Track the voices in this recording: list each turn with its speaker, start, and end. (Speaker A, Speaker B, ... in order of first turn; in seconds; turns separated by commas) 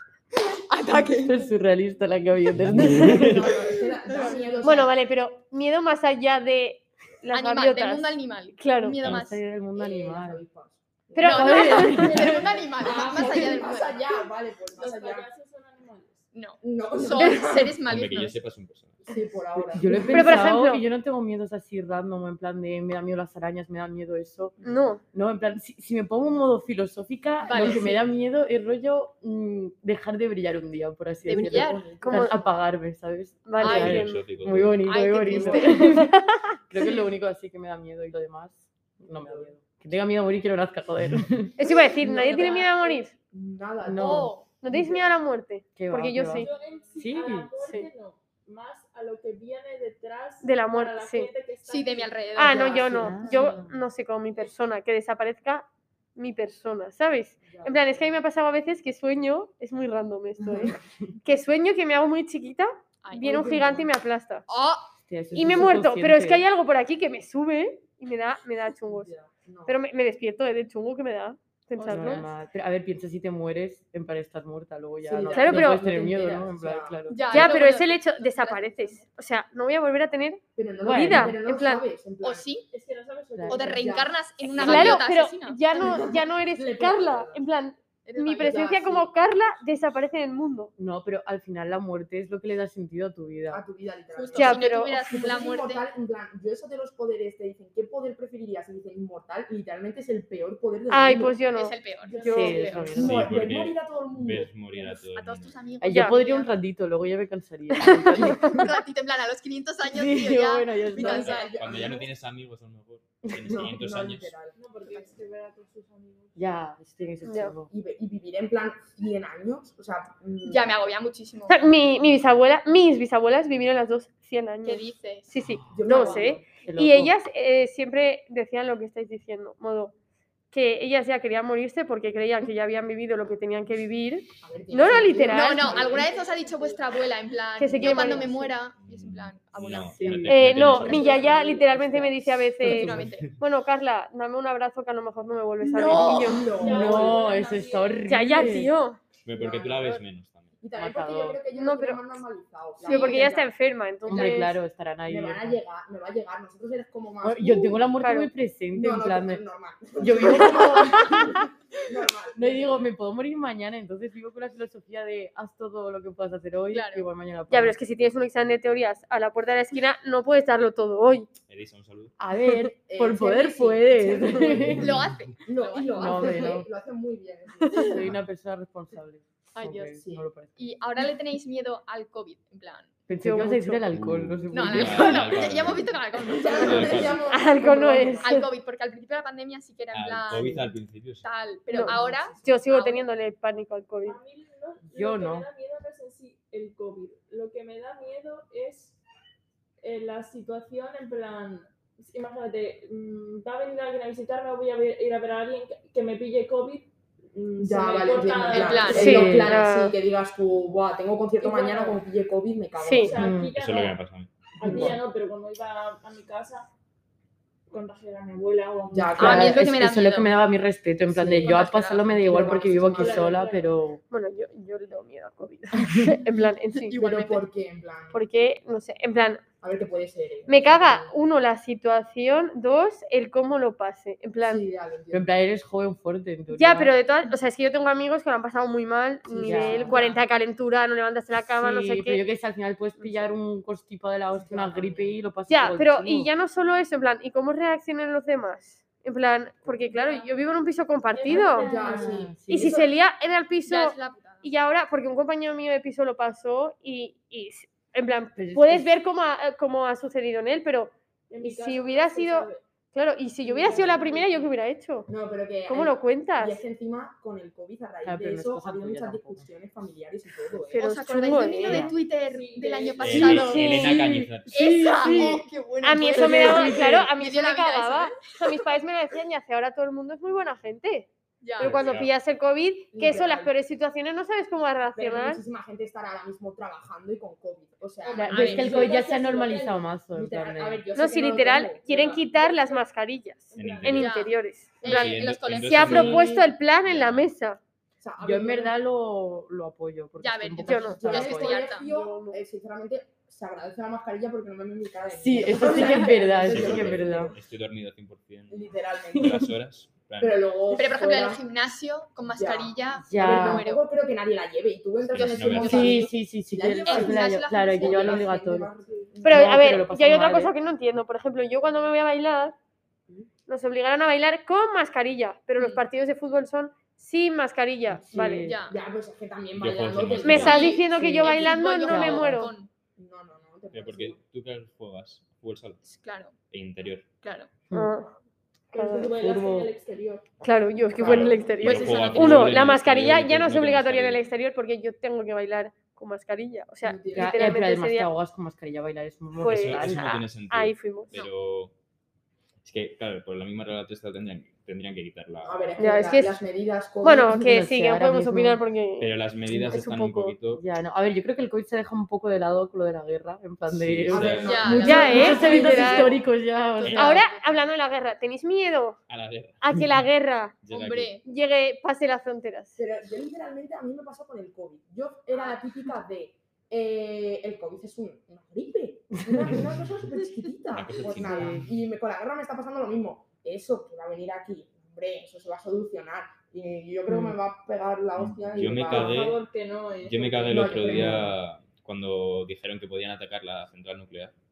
Speaker A: 0.3-1.5, Speaker B: 1.2-3.6, Speaker C: 2.5-3.4, Speaker D: 3.1-5.0, Speaker E: 4.6-9.0, Speaker A: 7.3-9.4, Speaker B: 9.0-10.4, Speaker D: 9.8-12.1, Speaker E: 11.2-12.1, Speaker A: 11.2-14.0, Speaker B: 11.2-12.4, Speaker F: 12.0-13.8, Speaker D: 12.8-15.3, Speaker F: 14.7-16.2, Speaker A: 16.3-18.4, Speaker D: 16.6-17.8, Speaker C: 17.9-19.0, Speaker D: 19.0-20.5, Speaker B: 19.7-36.2, Speaker E: 19.9-20.8, Speaker E: 24.6-25.0, Speaker A: 27.4-28.0, Speaker A: 31.2-31.9, Speaker D: 31.3-32.3, Speaker E: 32.0-32.4, Speaker E: 33.5-34.2, Speaker A: 33.6-34.0, Speaker C: 33.6-34.9, Speaker A: 34.8-35.9, Speaker E: 35.4-36.6, Speaker B: 36.7-41.6, Speaker D: 39.2-39.5, Speaker E: 41.6-43.1, Speaker D: 41.6-45.1, Speaker A: 42.2-42.8, Speaker B: 43.8-44.8, Speaker A: 44.0-44.5, Speaker E: 44.6-46.5, Speaker B: 45.8-47.5, Speaker F: 46.3-53.5, Speaker E: 50.4-51.3, Speaker A: 51.6-53.2, Speaker E: 52.3-64.4, Speaker B: 52.9-53.8, Speaker D: 57.4-58.0, Speaker A: 63.0-63.5, Speaker D: 63.2-63.9, Speaker A: 64.5-64.9, Speaker B: 65.1-66.4, Speaker E: 65.3-69.1, Speaker D: 68.8-69.8, Speaker E: 69.7-72.3, Speaker A: 71.8-72.3, Speaker B: 71.9-77.6, Speaker D: 75.0-77.4, Speaker E: 75.3-75.8, Speaker A: 77.1-79.1, Speaker E: 77.3-81.8, Speaker D: 80.5-82.5, Speaker B: 80.9-81.4, Speaker A: 82.2-82.6, Speaker F: 82.7-84.0, Speaker B: 83.3-83.6, Speaker A: 83.5-85.6, Speaker D: 83.8-85.0, Speaker E: 84.5-90.7, Speaker D: 85.7-87.5, Speaker A: 88.0-88.7, Speaker D: 88.4-89.1, Speaker B: 90.8-93.6, Speaker D: 93.5-101.4, Speaker A: 94.1-95.8, Speaker E: 94.3-95.0, Speaker E: 100.9-102.6, Speaker A: 101.5-102.8, Speaker F: 102.0-103.0, Speaker B: 102.3-103.3, Speaker D: 102.8-105.0, Speaker C: 103.0-105.6, Speaker A: 104.9-106.5, Speaker B: 105.8-108.7, Speaker E: 105.8-106.2, Speaker E: 107.7-108.6, Speaker A: 108.3-111.6, Speaker B: 109.9-111.4, Speaker D: 110.9-112.1, Speaker C: 111.6-114.3, Speaker B: 113.3-113.7, Speaker D: 113.4-114.6, Speaker F: 114.5-116.5, Speaker B: 116.3-117.7, Speaker E: 117.2-117.5, Speaker D: 117.7-120.7, Speaker A: 120.4-121.7, Speaker E: 121.5-129.9, Speaker A: 124.6-125.6, Speaker D: 125.7-126.5, Speaker B: 126.0-127.1, Speaker E: 130.5-135.8, Speaker D: 134.4-136.1, Speaker A: 135.3-140.2, Speaker F: 135.9-136.8, Speaker E: 137.6-138.3, Speaker D: 137.8-138.2, Speaker C: 138.8-141.2, Speaker B: 140.0-142.1, Speaker E: 140.2-146.5, Speaker D: 140.7-142.8, Speaker A: 142.6-143.3, Speaker C: 142.9-143.4, Speaker D: 145.6-147.3, Speaker A: 145.8-146.4, Speaker F: 146.4-148.5, Speaker B: 146.6-148.7, Speaker E: 148.1-149.0, Speaker C: 149.2-150.6, Speaker D: 149.3-150.0, Speaker D: 150.6-153.5, Speaker B: 150.7-151.4, Speaker E: 151.5-152.0, Speaker E: 152.8-154.6, Speaker A: 152.8-153.3, Speaker B: 154.1-155.6, Speaker A: 154.1-154.5, Speaker D: 155.1-158.0, Speaker B: 157.2-159.4, Speaker E: 158.0-158.3, Speaker D: 158.7-162.8, Speaker B: 160.0-161.4, Speaker E: 160.2-161.4, Speaker B: 162.3-167.8, Speaker A: 166.7-167.1, Speaker E: 167.5-171.3, Speaker C: 171.5-172.1, Speaker B: 172.2-174.9, Speaker D: 172.5-178.1, Speaker A: 174.7-176.5, Speaker B: 175.9-176.7, Speaker B: 177.7-180.5, Speaker A: 179.5-179.9, Speaker D: 179.9-180.3, Speaker A: 180.5-183.0, Speaker B: 183.1-185.8, Speaker E: 183.2-183.8, Speaker C: 183.9-185.9, Speaker A: 184.5-187.2, Speaker D: 186.3-188.3, Speaker C: 186.6-187.2, Speaker E: 187.2-188.5, Speaker A: 188.2-190.6, Speaker C: 189.9-191.2, Speaker B: 190.3-190.6, Speaker A: 191.2-193.1, Speaker E: 191.7-194.2, Speaker D: 191.8-192.6, Speaker F: 194.0-199.0, Speaker B: 194.9-195.4, Speaker F: 199.8-209.1, Speaker D: 207.6-213.3, Speaker A: 208.5-209.2, Speaker B: 208.9-209.6, Speaker E: 208.9-209.9, Speaker F: 211.4-212.0, Speaker E: 212.8-213.1, Speaker F: 213.0-214.0, Speaker B: 213.1-213.5, Speaker C: 213.6-214.3, Speaker F: 214.6-216.7, Speaker D: 214.6-214.9, Speaker B: 214.6-215.0, Speaker F: 217.7-219.5, Speaker D: 218.9-219.6, Speaker B: 219.2-224.0, Speaker A: 219.2-220.3, Speaker D: 221.1-221.6, Speaker A: 221.4-222.3, Speaker D: 222.2-223.4, Speaker F: 222.2-223.7, Speaker E: 224.1-226.9, Speaker A: 226.8-227.4, Speaker D: 226.9-228.2, Speaker E: 228.1-229.5, Speaker D: 229.6-231.2, Speaker E: 230.5-234.6, Speaker D: 234.4-235.3, Speaker B: 235.1-236.9, Speaker E: 236.5-242.2, Speaker D: 239.3-240.2, Speaker B: 239.4-240.1, Speaker B: 241.6-246.3, Speaker E: 243.0-243.2, Speaker D: 244.4-245.2, Speaker E: 245.5-251.8, Speaker F: 249.8-250.4, Speaker F: 251.1-252.3, Speaker D: 251.3-252.9, Speaker B: 251.8-252.8, Speaker E: 252.4-265.1, Speaker A: 253.6-254.5, Speaker B: 258.4-258.9, Speaker F: 261.3-262.6, Speaker F: 263.4-264.5, Speaker D: 265.1-271.4, Speaker E: 265.7-266.6, Speaker B: 268.0-269.4, Speaker E: 270.7-271.9, Speaker A: 270.7-278.7, Speaker B: 271.6-271.9, Speaker F: 272.2-273.3, Speaker C: 273.0-275.1, Speaker B: 273.1-275.4, Speaker E: 275.8-285.4, Speaker B: 276.1-277.1, Speaker A: 281.4-281.9, Speaker C: 281.6-282.1, Speaker D: 282.9-283.5, Speaker D: 284.9-289.4, Speaker F: 288.0-289.9, Speaker B: 288.2-290.9, Speaker A: 288.3-288.8, Speaker D: 290.1-292.2, Speaker E: 290.9-297.6, Speaker F: 291.8-292.9, Speaker F: 293.5-294.1, Speaker C: 293.6-294.1, Speaker A: 293.9-296.2, Speaker C: 294.8-297.3, Speaker D: 295.9-296.4, Speaker D: 298.0-298.7, Speaker B: 298.2-301.6, Speaker A: 300.2-301.9, Speaker E: 300.6-302.4, Speaker D: 300.8-307.4, Speaker B: 305.1-307.3, Speaker A: 305.6-306.1, Speaker C: 306.4-310.4, Speaker D: 308.5-309.4, Speaker B: 309.2-309.5, Speaker D: 310.2-311.4, Speaker A: 310.7-313.8, Speaker D: 312.4-319.9, Speaker B: 313.1-313.7, Speaker C: 315.1-316.1, Speaker A: 315.2-315.6, Speaker B: 315.6-318.7, Speaker A: 316.9-318.3, Speaker B: 319.2-320.5, Speaker E: 319.2-322.5, Speaker E: 323.5-328.5, Speaker A: 325.6-325.8, Speaker B: 327.9-328.6, Speaker D: 328.1-330.8, Speaker A: 328.4-328.8, Speaker C: 329.5-330.6, Speaker E: 330.2-332.5, Speaker A: 330.2-332.7, Speaker B: 330.9-332.5, Speaker D: 332.9-334.2, Speaker C: 333.7-335.8, Speaker A: 335.8-336.3, Speaker C: 336.5-337.1, Speaker A: 337.2-337.5, Speaker E: 337.7-338.1, Speaker F: 338.7-340.3, Speaker E: 338.7-339.1, Speaker B: 339.2-339.7, Speaker E: 340.4-348.1, Speaker C: 340.9-344.2, Speaker A: 341.0-342.7, Speaker D: 346.8-347.6, Speaker B: 347.1-350.1, Speaker E: 349.4-351.1, Speaker C: 349.4-351.7, Speaker C: 352.6-355.6, Speaker D: 355.4-357.8, Speaker E: 355.8-356.4, Speaker E: 357.0-360.4, Speaker B: 357.3-358.6, Speaker C: 359.0-360.6, Speaker B: 360.5-367.2, Speaker C: 363.7-365.0, Speaker D: 364.1-366.2, Speaker A: 364.4-366.2, Speaker E: 364.8-366.1, Speaker A: 366.7-367.6, Speaker C: 366.8-367.1, Speaker E: 366.9-369.0, Speaker C: 369.1-369.6, Speaker E: 369.6-370.6, Speaker C: 370.6-371.2, Speaker A: 370.7-371.2, Speaker E: 371.2-372.8, Speaker D: 372.8-389.4, Speaker A: 375.3-375.6, Speaker B: 379.3-379.6, Speaker C: 380.7-381.8, Speaker B: 381.1-381.7, Speaker B: 387.1-387.4, Speaker C: 388.1-389.4, Speaker F: 388.9-390.8, Speaker C: 390.0-394.3, Speaker D: 390.4-391.3, Speaker B: 390.8-391.3